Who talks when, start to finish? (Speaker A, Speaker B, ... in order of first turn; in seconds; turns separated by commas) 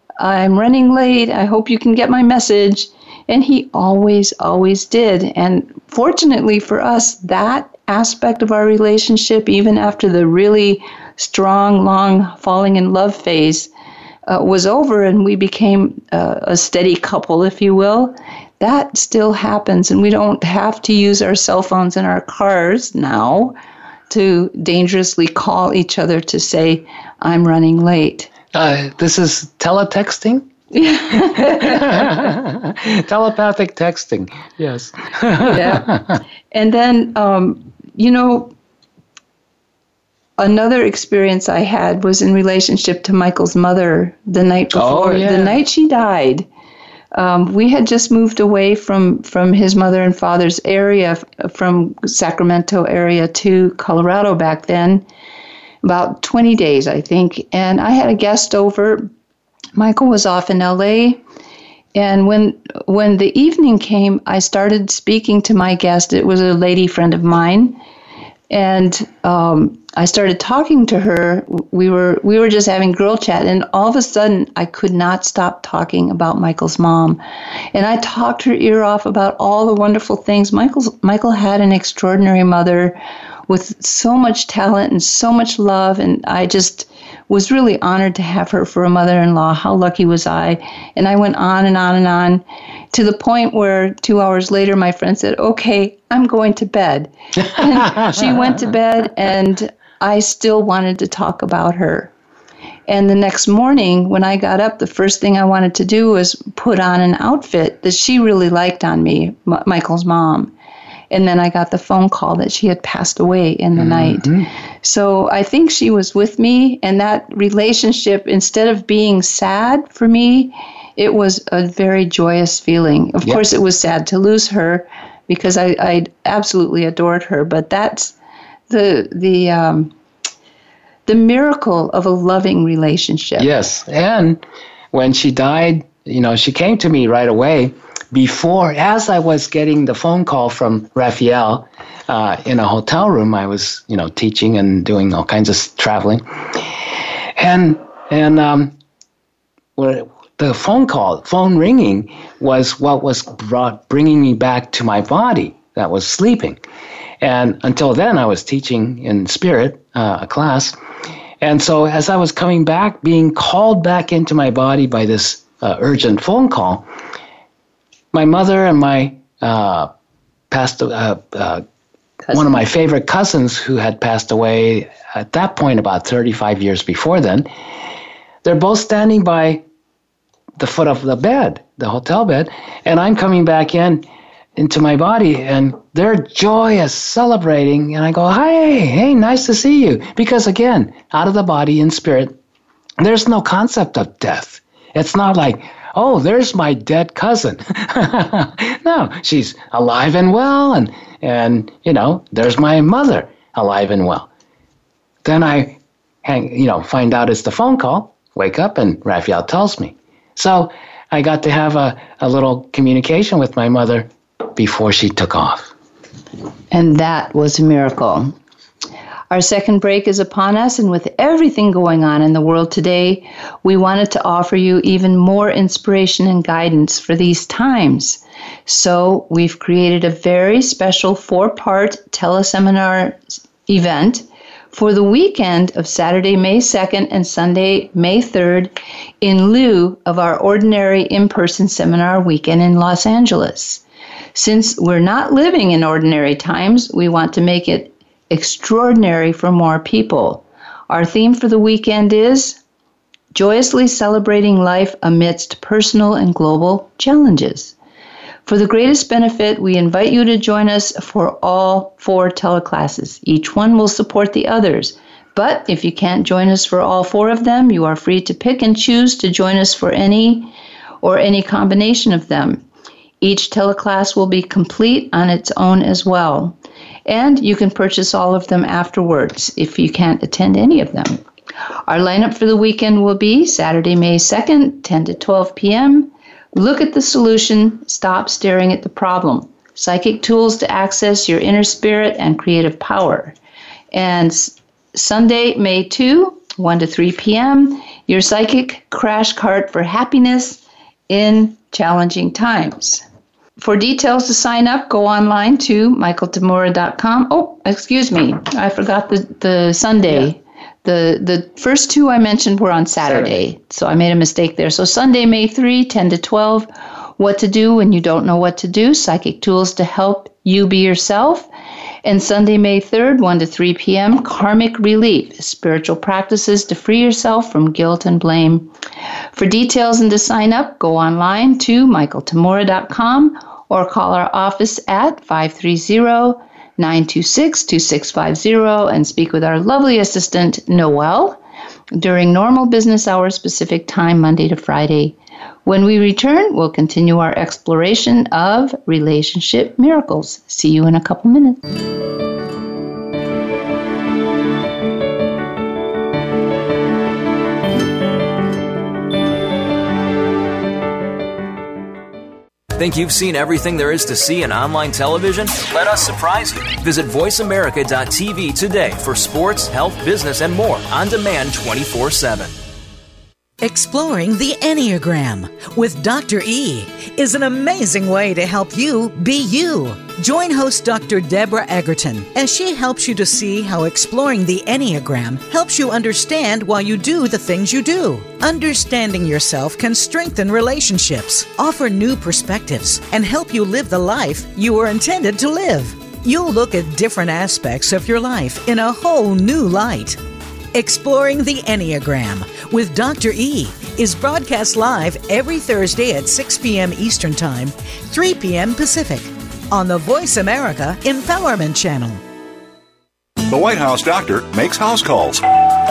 Speaker A: 0.2-13.7, Speaker A: 14.3-23.5, Speaker A: 24.1-28.3, Speaker B: 28.5-30.5, Speaker A: 30.7-32.0, Speaker B: 31.4-36.2, Speaker A: 35.5-35.9, Speaker A: 36.5-38.5, Speaker A: 40.4-46.5, Speaker B: 44.7-45.6, Speaker A: 47.1-55.0, Speaker A: 55.8-59.0, Speaker A: 59.8-61.2, Speaker A: 62.0-67.8, Speaker A: 68.5-77.2, Speaker A: 77.7-83.0, Speaker A: 83.5-102.1, Speaker A: 102.9-110.5, Speaker A: 111.1-114.3, Speaker B: 113.8-114.5, Speaker A: 114.8-128.1, Speaker A: 128.7-129.9, Speaker A: 131.1-133.5, Speaker B: 133.4-146.7, Speaker B: 147.4-148.8, Speaker B: 149.8-156.6, Speaker B: 157.2-160.8, Speaker B: 161.4-166.9, Speaker B: 168.1-169.9, Speaker B: 170.5-171.6, Speaker A: 172.3-172.6, Speaker B: 172.3-177.5, Speaker B: 178.4-179.6, Speaker B: 180.6-192.4, Speaker B: 193.0-204.3, Speaker B: 205.2-215.7, Speaker A: 216.7-218.3, Speaker A: 219.3-238.7, Speaker A: 239.2-243.8, Speaker A: 244.3-252.6, Speaker A: 253.3-257.8, Speaker A: 258.5-270.5, Speaker A: 271.0-272.6, Speaker A: 273.2-281.2, Speaker A: 281.9-293.4, Speaker A: 293.9-303.0, Speaker A: 303.6-316.7, Speaker A: 317.2-321.5, Speaker A: 322.1-328.7, Speaker A: 329.3-341.4, Speaker A: 341.9-351.6, Speaker C: 362.8-372.6, Speaker D: 373.6-400.2, Speaker D: 400.7-412.2, Speaker E: 413.5-415.6